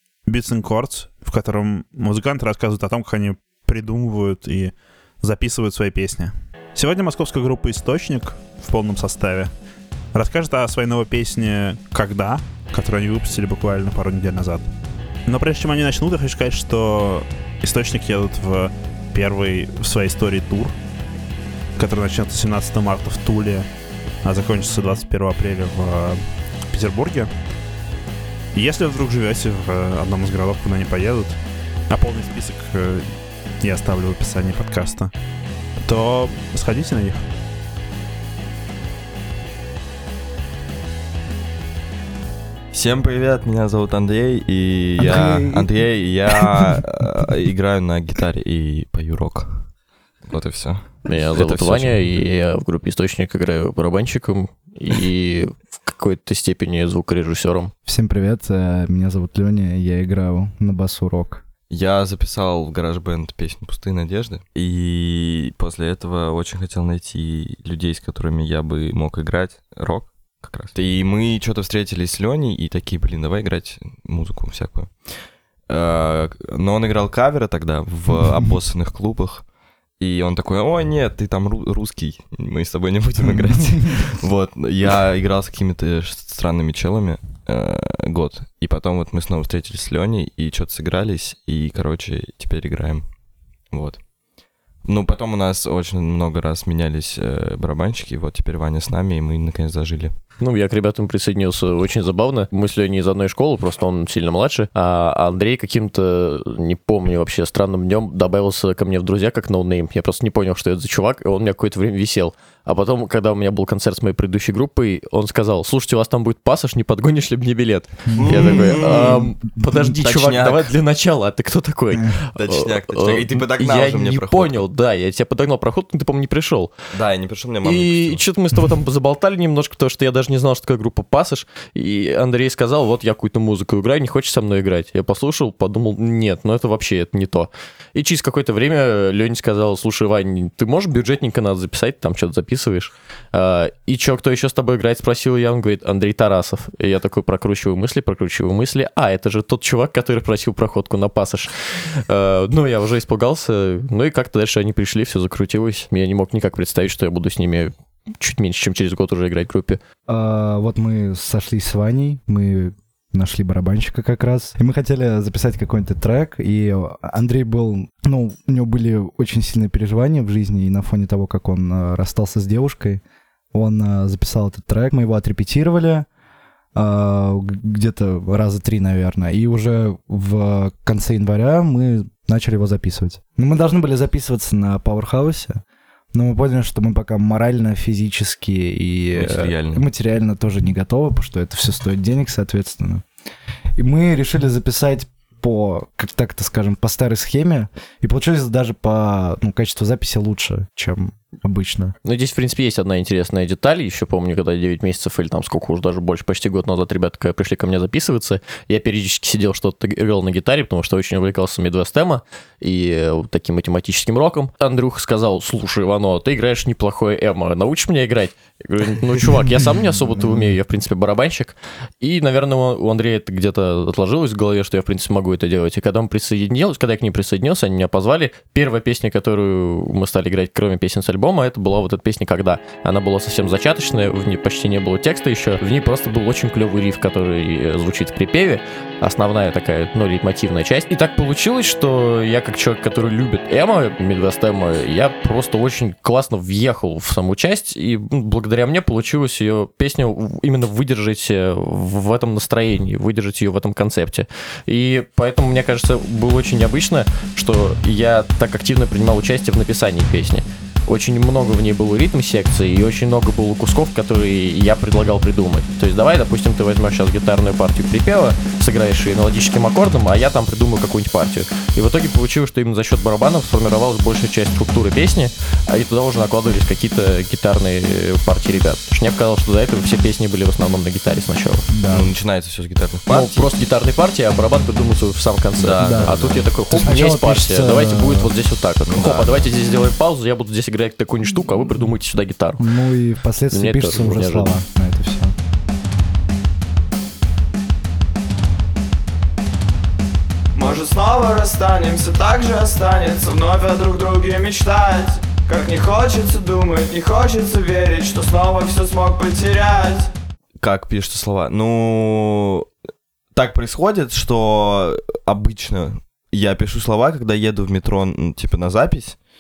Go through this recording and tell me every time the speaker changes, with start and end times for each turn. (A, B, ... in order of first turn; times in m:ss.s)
0:00.3-0:09.5 A
0:10.1-0:14.7 A
0:15.3-0:20.7 A
0:21.8-0:23.7 A
0:24.2-0:26.2 A
0:26.7-0:27.3 A
0:28.5-0:31.4 A
0:31.9-0:33.0 A
0:33.6-0:35.1 A
0:35.9-0:37.2 A
0:42.7-0:49.7 B
0:45.0-0:45.7 C
0:46.3-0:46.7 C
0:50.3-0:52.0 B
0:51.1-0:57.7 D
0:57.9-1:01.4 C
1:01.7-1:15.1 B
1:15.7-1:19.4 B
1:20.0-1:33.1 B
1:23.3-1:24.0 C
1:33.7-1:34.0 B
1:34.8-1:40.1 B
1:40.4-2:06.7 D
1:58.1-1:59.3 C
1:58.2-2:00.7 B
2:02.3-2:04.6 B
2:06.9-2:08.3 B
2:07.6-2:39.8 D
2:40.1-2:53.0 C
2:53.5-2:56.1 C
2:56.8-3:05.6 C
3:06.1-3:13.0 C
3:09.1-3:09.9 B
3:13.8-3:21.9 C
3:22.0-4:41.7 D
4:41.7-4:42.1 C
4:41.9-4:43.5 B
4:43.1-4:52.8 D
4:45.6-4:46.5 B
4:45.8-4:48.3 C
4:48.9-4:49.5 B
4:52.6-4:55.4 C
4:53.5-4:54.6 D
5:00.5-5:10.1 E
5:10.6-5:12.7 B
5:13.4-5:19.2 B